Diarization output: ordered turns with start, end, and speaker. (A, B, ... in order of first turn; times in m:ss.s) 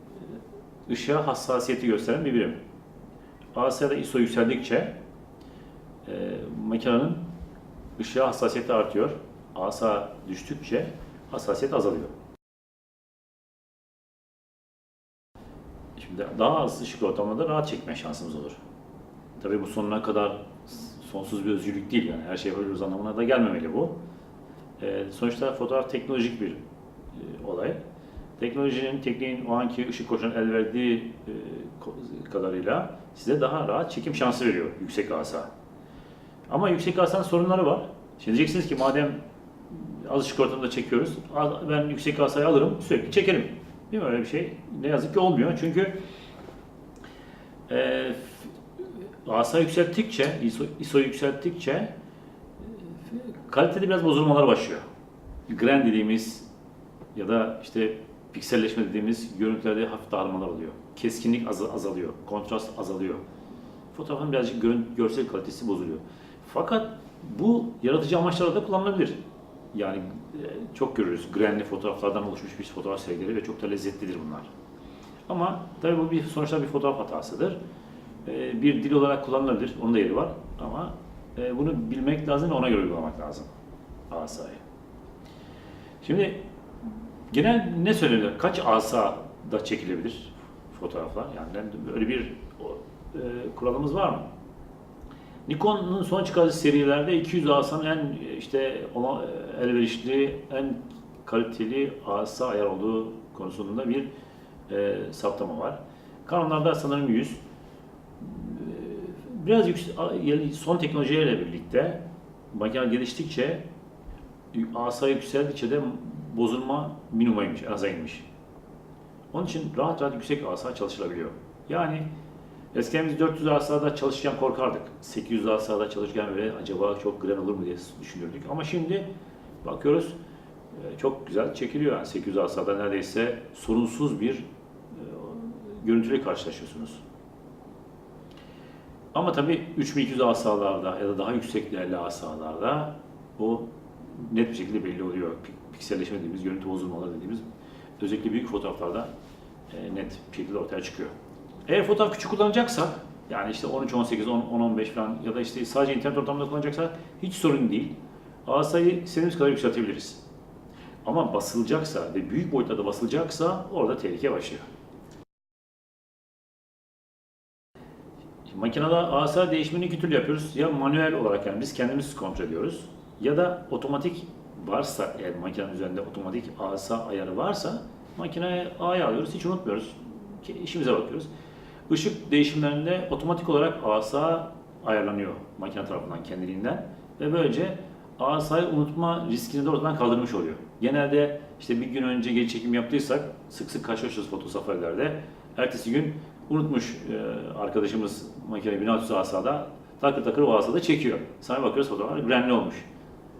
0:00.9-0:02.6 A
0:03.5-0:05.0 A
0:06.0-0:07.2 A
0:08.0-0:12.1 A
0:16.0-0:18.6 A
0:19.4-0:24.0 A
0:24.8-0:26.6 A
0:27.1-0:27.8 A
0:28.4-0:35.5 A
0:36.5-0:39.2 A
0:39.7-0:46.0 A
0:47.7-0:48.5 A
0:49.2-0:51.9 A
0:52.9-0:54.8 A
0:55.5-0:56.5 A
0:57.1-1:03.2 A
1:03.9-1:09.2 A
1:09.7-1:14.5 A
1:15.3-1:17.6 A
1:18.2-1:23.5 A
1:24.1-1:24.6 A
1:26.0-1:26.4 A
1:27.3-1:34.3 A
1:35.5-1:44.1 A
1:44.7-1:47.4 A
1:48.2-1:53.6 A
1:54.5-1:58.2 A
1:59.3-2:02.1 A
2:02.7-2:09.1 A
2:09.6-2:10.2 A
2:10.7-2:17.0 A
2:19.1-2:27.4 A
2:28.0-2:29.1 A
2:29.7-2:31.1 A
2:31.7-2:40.2 A
2:41.0-2:44.6 A
2:48.5-3:01.3 A
3:01.9-3:22.9 A